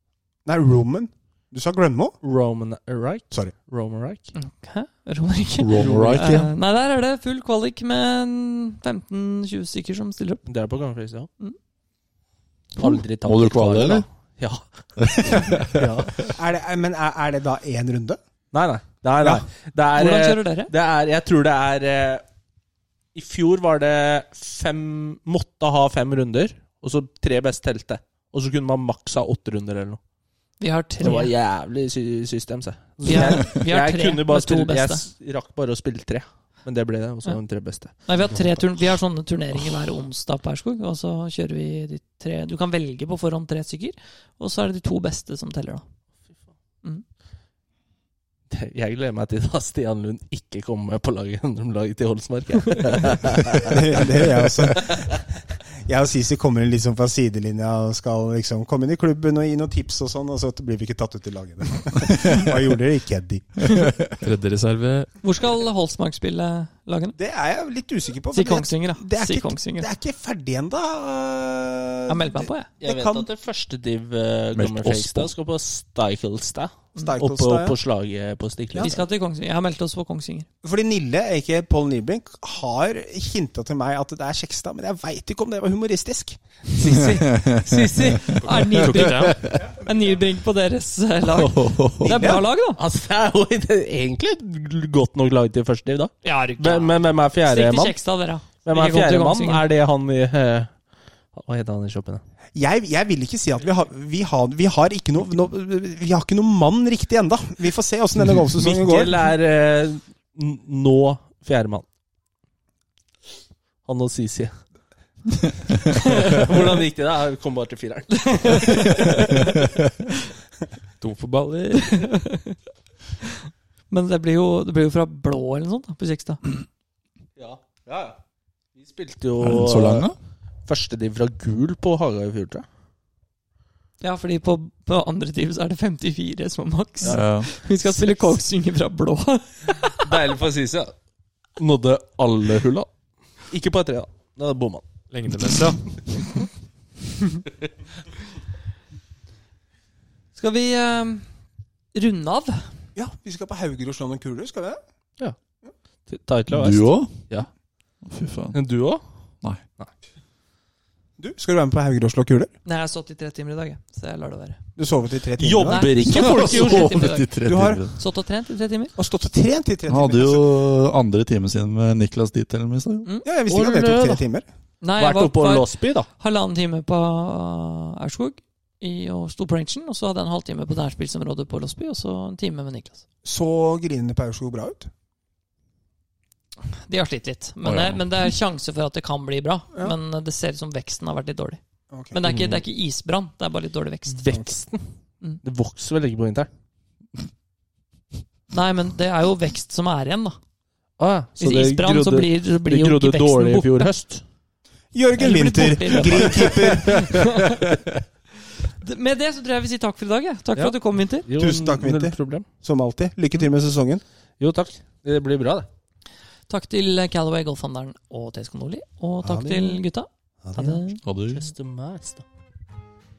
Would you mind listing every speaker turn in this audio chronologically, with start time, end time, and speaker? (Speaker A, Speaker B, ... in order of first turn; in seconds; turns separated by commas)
Speaker A: 0.5-2.2, Speaker B: 2.2-4.3, Speaker C: 4.3-10.4, Speaker D: 5.6-6.5, Speaker B: 5.7-6.4, Speaker B: 10.4-11.3, Speaker B: 12.8-16.3, Speaker D: 13.2-14.1, Speaker D: 15.0-15.8, Speaker A: 16.2-18.2, Speaker B: 18.5-22.2, Speaker C: 19.9-20.7, Speaker B: 23.1-30.0, Speaker C: 30.6-31.3, Speaker B: 31.0-37.9, Speaker C: 33.0-35.0, Speaker C: 38.0-45.8, Speaker B: 48.5-54.1, Speaker A: 53.6-55.3, Speaker A: 55.8-63.9, Speaker E: 64.2-65.1, Speaker C: 65.2-67.2, Speaker A: 67.1-73.3, Speaker C: 68.3-69.9, Speaker C: 72.1-72.7, Speaker B: 72.8-78.9, Speaker D: 74.5-75.3, Speaker A: 77.0-77.8, Speaker A: 78.7-79.0, Speaker C: 78.8-80.5, Speaker A: 80.6-86.4, Speaker B: 86.7-88.3, Speaker D: 86.9-88.3, Speaker E: 88.4-89.4, Speaker C: 88.4-92.8, Speaker D: 88.9-89.4, Speaker D: 91.4-92.2, Speaker A: 92.0-92.4, Speaker B: 92.1-98.0, Speaker C: 96.2-99.6, Speaker B: 98.6-100.7, Speaker B: 101.3-102.2, Speaker A: 102.5-109.1, Speaker B: 108.6-111.8, Speaker B: 113.8-114.5, Speaker B: 116.0-119.1, Speaker C: 118.3-119.4, Speaker E: 121.0-121.7, Speaker C: 121.5-122.6, Speaker C: 123.9-126.4, Speaker B: 127.4-128.2, Speaker B: 128.7-130.1, Speaker D: 129.4-130.2, Speaker B: 130.7-132.7, Speaker C: 134.0-140.1, Speaker D: 137.1-137.5, Speaker B: 140.0-140.9, Speaker B: 141.6-142.9, Speaker B: 143.4-144.9, Speaker E: 145.1-146.0, Speaker C: 150.4-151.2, Speaker C: 151.9-152.7, Speaker A: 152.9-154.8, Speaker B: 156.1-157.5, Speaker D: 156.5-157.3, Speaker D: 158.0-158.6, Speaker B: 158.5-159.0, Speaker A: 161.2-162.5, Speaker C: 162.6-164.6, Speaker A: 164.8-165.9, Speaker B: 165.4-167.1, Speaker C: 165.7-167.4, Speaker D: 166.1-167.9, Speaker A: 167.4-167.8, Speaker C: 168.0-168.9, Speaker A: 169.0-170.5, Speaker D: 169.9-173.1, Speaker A: 173.2-174.4, Speaker B: 173.5-174.2, Speaker C: 174.8-183.0, Speaker B: 175.0-176.1, Speaker A: 183.2-184.9, Speaker C: 186.8-191.6, Speaker D: 187.6-188.1, Speaker A: 191.9-192.2, Speaker C: 192.1-194.4, Speaker B: 192.2-192.6, Speaker B: 194.1-194.8, Speaker B: 195.4-196.5, Speaker C: 198.5-200.4, Speaker B: 201.0-204.2, Speaker C: 201.4-203.9, Speaker A: 204.9-207.3, Speaker C: 205.2-207.7, Speaker B: 205.9-207.3, Speaker C: 208.8-211.3, Speaker B: 211.3-212.4, Speaker A: 211.3-214.0, Speaker B: 214.4-215.7, Speaker C: 216.5-221.0, Speaker A: 219.2-219.8, Speaker A: 220.4-220.8, Speaker D: 221.0-221.5, Speaker B: 221.3-222.2